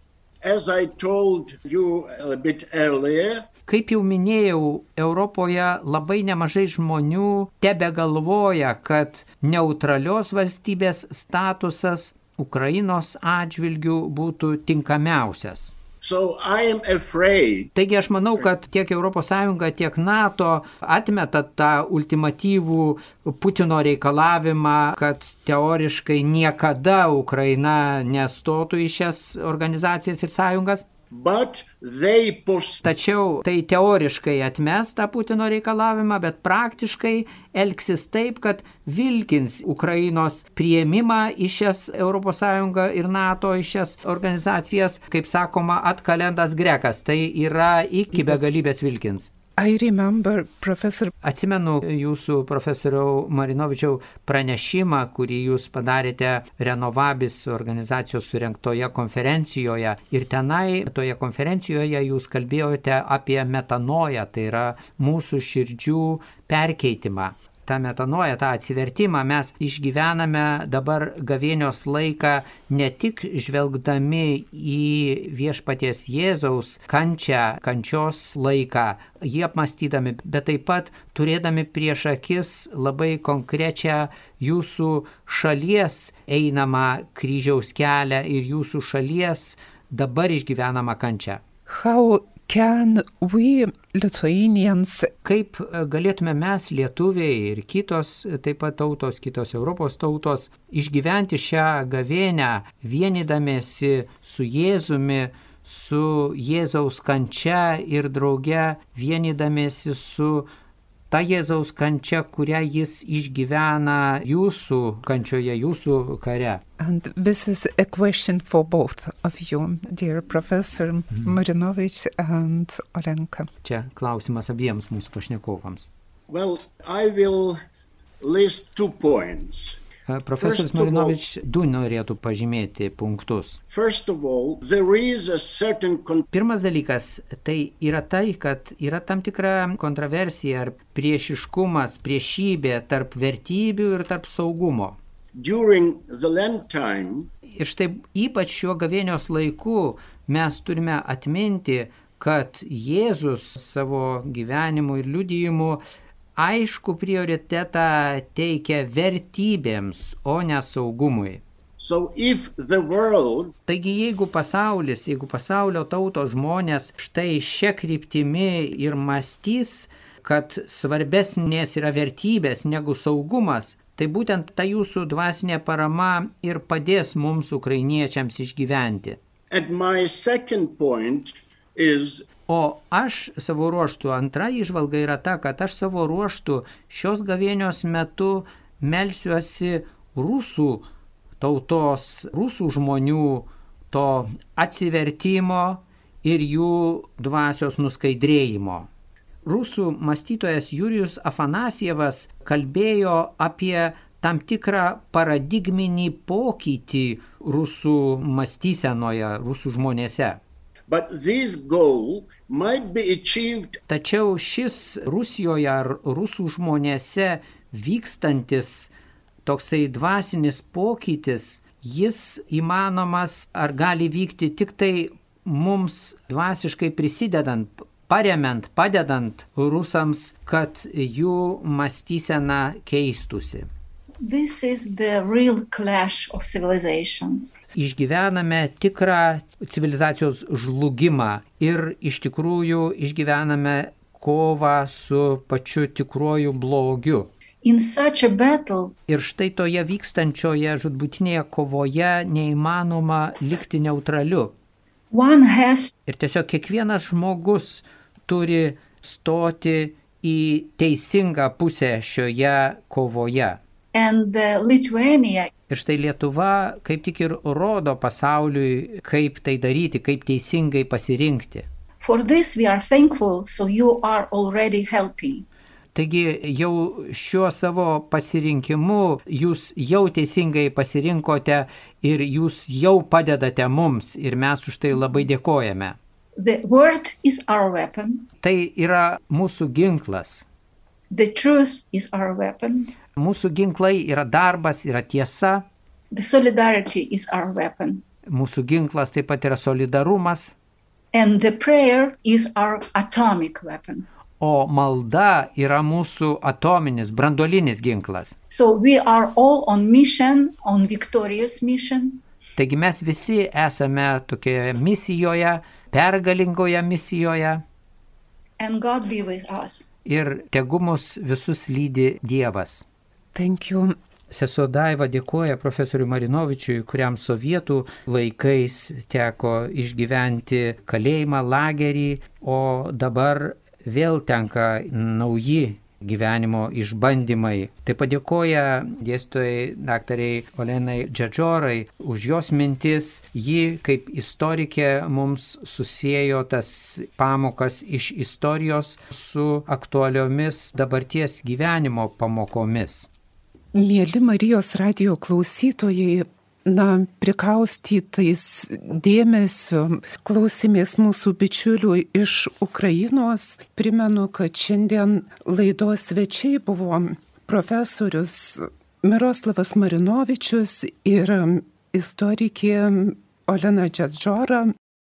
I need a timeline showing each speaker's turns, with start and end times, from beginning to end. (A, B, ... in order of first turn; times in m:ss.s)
0:00.4-0:03.5 A
0:03.7-0:15.7 B
0:16.0-0:17.7 A
0:17.8-0:30.9 B
0:31.1-0:32.8 A
0:32.8-0:49.3 B
0:49.6-0:51.1 C
0:51.2-1:31.4 B
1:31.7-1:35.1 C
1:35.2-1:50.5 B
1:51.1-1:56.6 B
1:56.8-2:03.5 C
2:03.6-2:05.9 B
2:06.3-2:07.6 A
2:08.2-2:09.8 A
2:10.1-2:13.6 B
2:10.4-2:11.2 A
2:13.7-2:16.3 A
2:16.3-2:25.0 B
2:25.4-2:27.3 A
2:27.5-2:35.8 B
2:36.4-2:41.4 B
2:41.8-2:43.6 A
2:43.7-2:59.2 B
2:59.5-3:02.3 A
3:02.5-3:10.8 B
3:11.4-3:18.9 B
3:19.4-3:30.4 B
3:30.9-3:33.8 A
3:33.9-3:38.9 B
3:39.4-3:53.7 B
3:54.2-3:57.6 D
3:57.7-4:07.3 B
4:07.6-4:09.0 D
4:09.1-4:14.5 B
4:15.1-4:15.9 D
4:16.1-4:23.6 B
4:23.9-4:25.5 D
4:25.7-4:31.7 B
4:32.0-4:35.5 D
4:36.0-4:46.0 B
4:46.4-4:48.3 D
4:48.4-4:50.5 B
4:51.1-4:52.9 D
4:53.2-4:55.6 B
4:56.1-4:58.0 D
4:58.3-5:00.6 B
5:01.1-5:04.1 D
5:04.4-5:08.4 B
5:08.5-5:12.2 D
5:12.6-5:17.6 B
5:18.6-5:19.9 D
5:20.0-5:22.9 B
5:23.3-5:24.0 C
5:24.3-5:53.1 B
5:53.7-6:14.7 C